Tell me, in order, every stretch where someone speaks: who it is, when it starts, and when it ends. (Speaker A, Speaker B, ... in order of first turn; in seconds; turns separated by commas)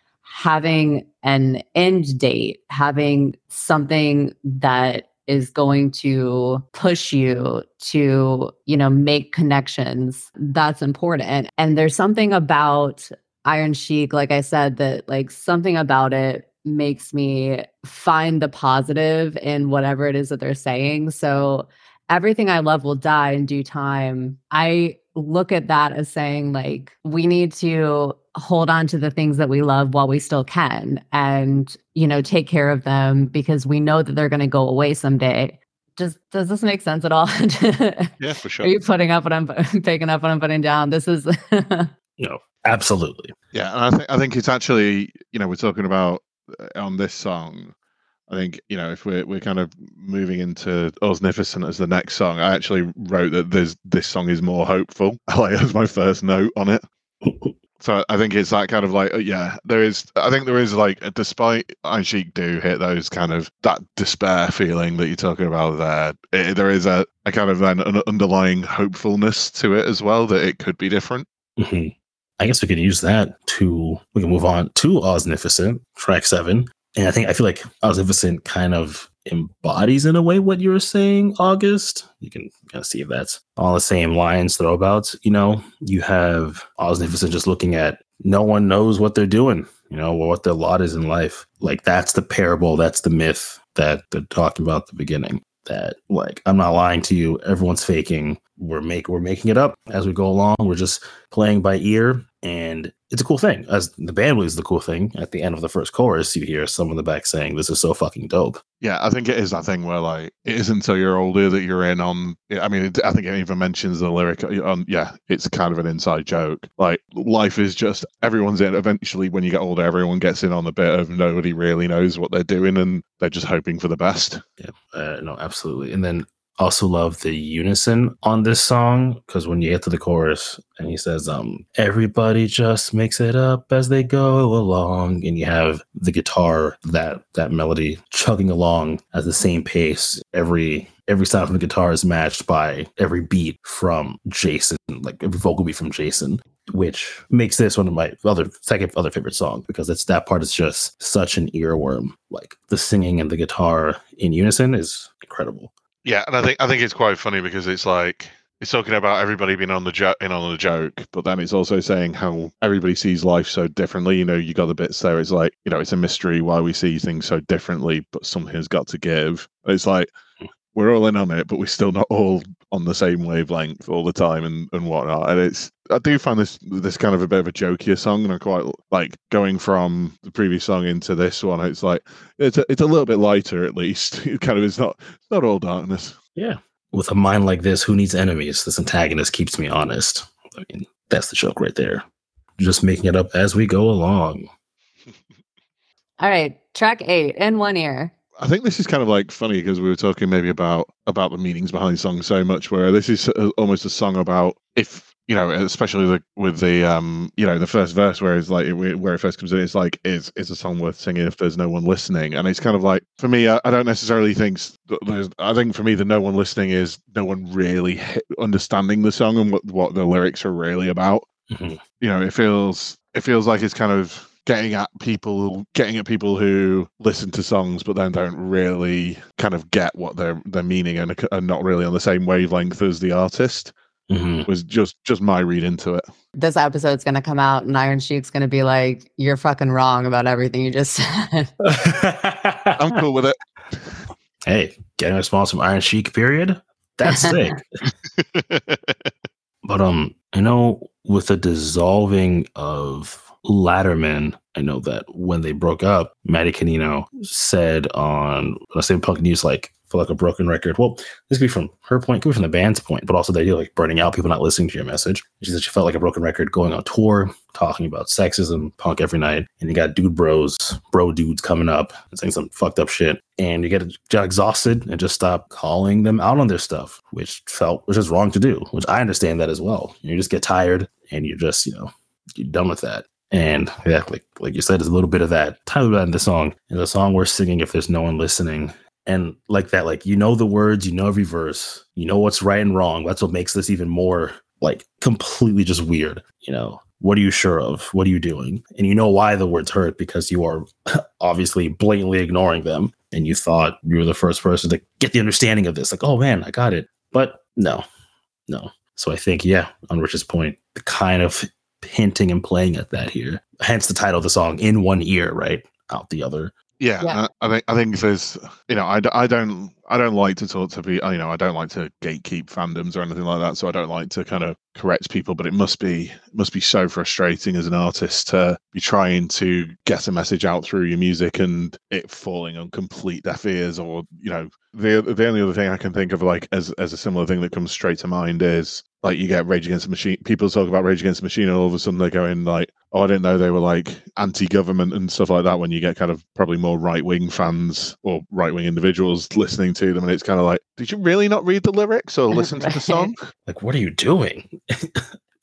Speaker A: 0.2-41.9, Speaker B: 38.2-38.7, Speaker C: 42.2-43.3, Speaker B: 43.5-47.7, Speaker B: 48.3-56.8, Speaker C: 57.2-57.5, Speaker B: 57.8-71.2, Speaker C: 71.6-108.6, Speaker B: 108.8-124.4, Speaker C: 124.6-155.7, Speaker B: 156.0-170.1, Speaker B: 170.7-186.2, Speaker C: 186.3-192.0, Speaker C: 192.6-194.4, Speaker A: 196.2-198.1, Speaker B: 198.4-221.3, Speaker C: 221.5-221.8, Speaker B: 222.0-233.7, Speaker C: 234.1-234.5, Speaker B: 234.4-236.0, Speaker A: 236.3-241.5, Speaker C: 241.6-242.9, Speaker B: 242.7-243.3, Speaker C: 244.4-247.9, Speaker A: 247.1-247.3, Speaker B: 248.2-249.1, Speaker C: 249.6-307.8, Speaker C: 308.5-316.5, Speaker B: 316.8-353.1, Speaker A: 352.3-353.1, Speaker C: 353.5-355.1